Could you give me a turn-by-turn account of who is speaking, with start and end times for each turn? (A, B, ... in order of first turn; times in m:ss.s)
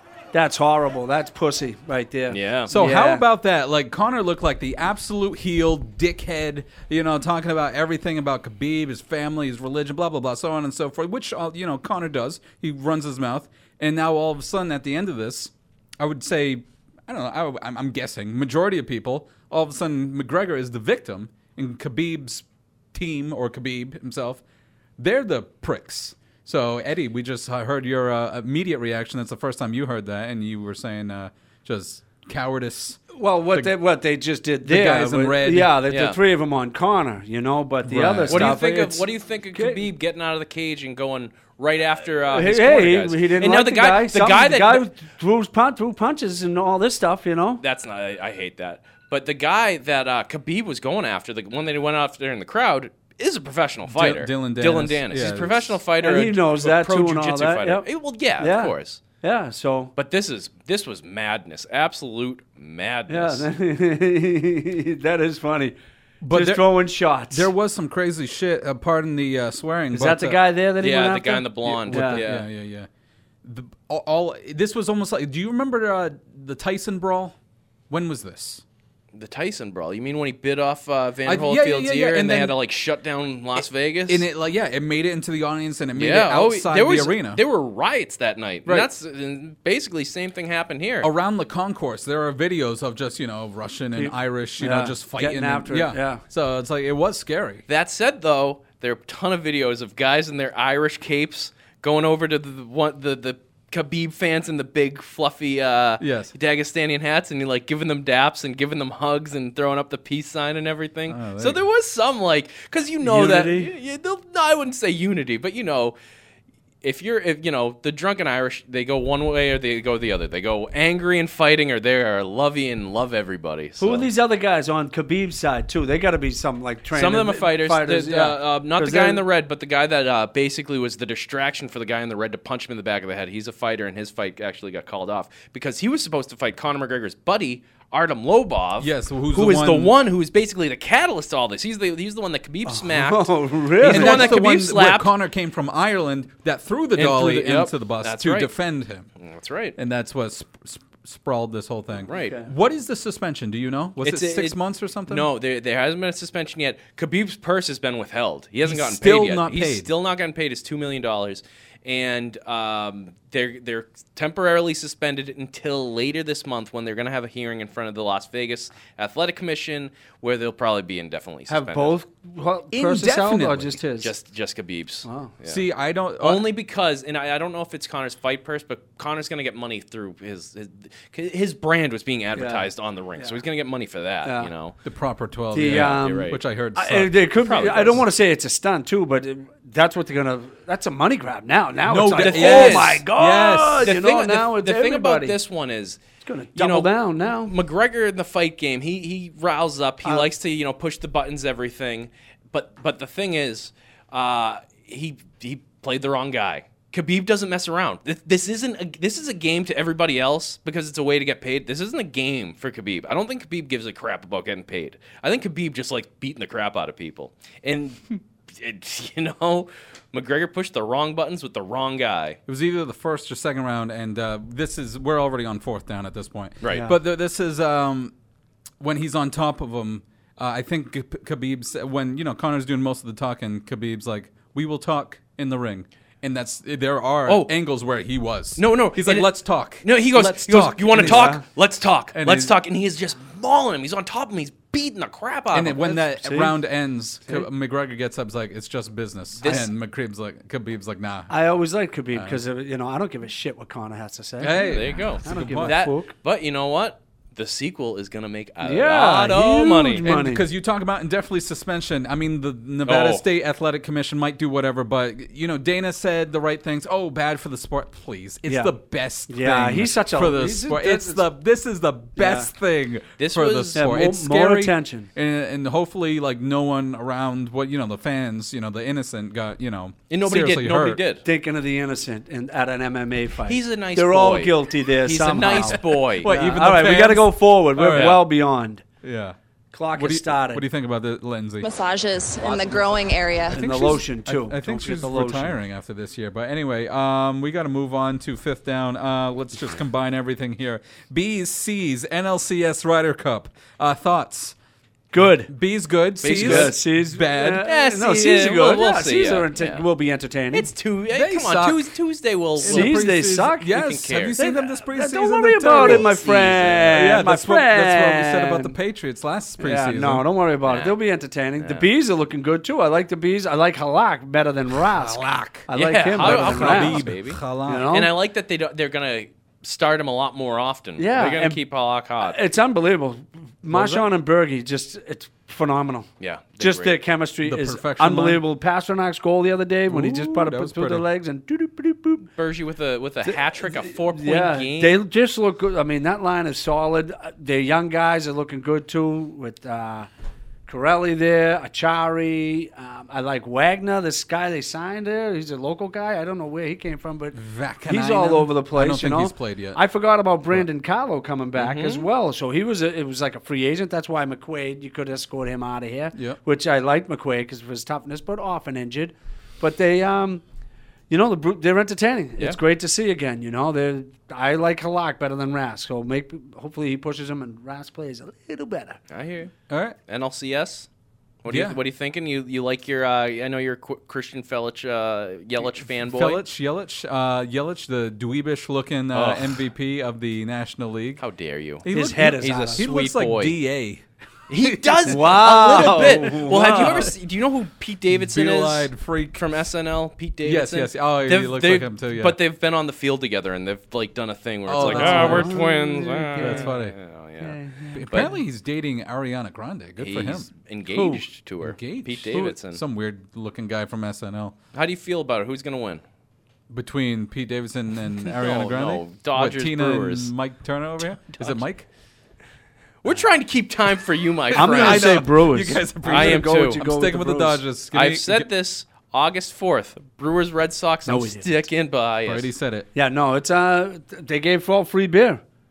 0:00.3-0:03.2 A
0:02.3-0:02.7 B
0:02.7-0:24.4 C
0:25.0-0:33.8 C
0:33.1-0:39.9 A
0:34.6-0:35.7 C
0:35.9-0:36.2 B
0:37.8-0:38.6 C
0:38.3-0:44.9 B
0:42.3-0:47.6 A
0:47.6-0:59.0 B
0:53.9-0:55.8 C
0:56.0-0:57.9 A
0:58.4-0:59.9 A
1:00.0-1:03.4 B
1:03.1-1:05.8 A
1:06.2-1:06.8 C
1:06.3-1:07.5 A
1:07.3-1:10.4 C
1:09.9-1:12.2 A
1:10.8-1:12.5 B
1:11.7-1:12.9 C
1:13.4-1:17.4 C
1:17.9-1:18.6 C
1:19.1-1:24.2 B
1:21.3-1:22.6 C
1:24.1-1:27.4 C
1:26.0-1:31.1 B
1:31.0-1:37.6 C
1:34.0-1:36.2 A
1:37.7-1:56.0 B
1:46.0-1:46.3 C
1:51.1-1:51.6 C
1:53.0-1:53.7 A
1:56.8-2:04.1 B
2:03.8-2:09.2 A
2:06.9-2:25.1 B
2:18.8-2:20.0 C
2:22.7-2:24.4 A
2:23.8-2:29.1 C
2:27.0-2:28.5 B
2:29.2-2:29.8 B
2:29.8-2:35.3 C
2:32.1-2:32.4 B
2:32.2-2:32.5 A
2:34.0-2:52.0 B
2:38.6-2:39.9 C
2:51.5-2:54.1 A
2:52.7-2:53.8 C
2:54.0-2:55.6 B
2:55.0-2:55.3 A
2:55.4-2:56.5 C
2:56.2-3:04.8 B
3:02.4-3:03.4 A
3:04.2-3:04.5 A
3:04.8-3:07.1 C
3:05.5-3:15.4 A
3:05.6-3:06.4 B
3:07.4-3:08.0 B
3:11.9-3:13.9 C
3:12.2-3:13.0 B
3:13.8-3:16.0 B
3:16.2-3:17.5 A
3:16.6-3:42.4 B
3:42.5-3:48.1 C
3:46.6-3:46.9 B
3:46.6-3:46.9 A
3:48.8-4:01.4 C
3:57.3-3:57.5 B
3:58.6-4:05.9 B
4:00.9-4:01.4 A
4:02.1-4:02.6 C
4:05.5-4:11.3 C
4:05.9-4:06.6 A
4:09.4-4:09.7 B
4:11.3-4:16.1 A
4:12.1-4:12.4 C
4:14.4-4:15.8 C
4:14.5-4:20.1 B
4:18.6-4:20.4 A
4:20.0-4:41.0 C
4:22.8-4:23.2 B
4:28.5-4:28.7 A
4:29.3-4:31.2 A
4:32.2-4:32.5 A
4:33.2-4:33.8 B
4:33.7-4:35.1 A
4:40.1-4:41.2 B
4:41.2-4:48.8 A
4:43.5-4:46.3 B
4:45.5-4:48.2 C
4:47.9-4:48.2 B
4:49.0-4:49.4 C
4:49.7-4:50.6 A
4:49.9-4:51.7 C
4:51.6-4:53.7 D
4:52.6-4:52.8 A
4:53.5-4:55.6 A
4:53.5-5:04.6 C
5:05.1-5:05.5 A
5:05.2-5:07.7 C
5:06.2-5:06.8 B
5:06.2-5:10.7 A
5:07.6-5:09.8 B
5:10.5-5:13.0 B
5:11.1-5:11.9 C
5:12.6-5:20.3 C
5:12.6-5:13.7 A
5:13.6-5:14.4 B
5:14.4-5:18.8 A
5:15.7-5:17.0 B
5:19.6-5:27.1 A
5:20.6-5:21.0 B
5:21.6-5:21.9 B
5:24.9-5:27.9 C
5:25.7-5:32.4 B
5:27.7-5:28.1 A
5:31.0-5:31.6 A
5:32.2-5:36.1 A
5:33.7-5:34.1 C
5:36.2-5:37.0 B
5:36.6-5:42.3 A
5:37.4-5:38.4 C
5:39.9-5:41.1 C
5:42.4-5:45.0 B
5:43.3-5:50.1 A
5:50.7-6:10.4 A
5:57.3-5:59.8 C
6:01.6-6:02.1 B
6:06.1-6:06.4 C
6:11.1-6:19.0 A
6:19.1-6:19.5 B
6:19.7-6:20.0 C
6:20.1-6:20.9 B
6:21.4-6:26.4 B
6:21.5-6:21.8 C
6:26.0-6:31.2 C
6:29.1-6:29.6 B
6:31.2-6:33.6 B
6:31.8-6:37.1 C
6:31.9-6:32.9 A
6:34.5-6:47.6 B
6:35.1-6:37.1 A
6:38.1-6:39.5 C
6:40.4-6:42.4 C
6:44.7-6:45.6 C
6:44.8-6:46.7 A
6:46.4-6:47.0 C
6:47.4-6:48.3 A
6:48.0-6:54.6 C
6:50.0-6:52.8 B
6:54.7-6:56.0 B
6:56.7-7:01.9 C
6:58.3-7:00.3 B
7:01.2-7:01.6 B
7:03.0-7:05.2 B
7:04.5-7:08.5 C
7:04.6-7:07.6 A
7:06.0-7:06.8 B
7:07.9-7:12.5 B
7:11.0-7:11.5 A
7:12.2-7:12.9 C
7:13.0-7:15.4 A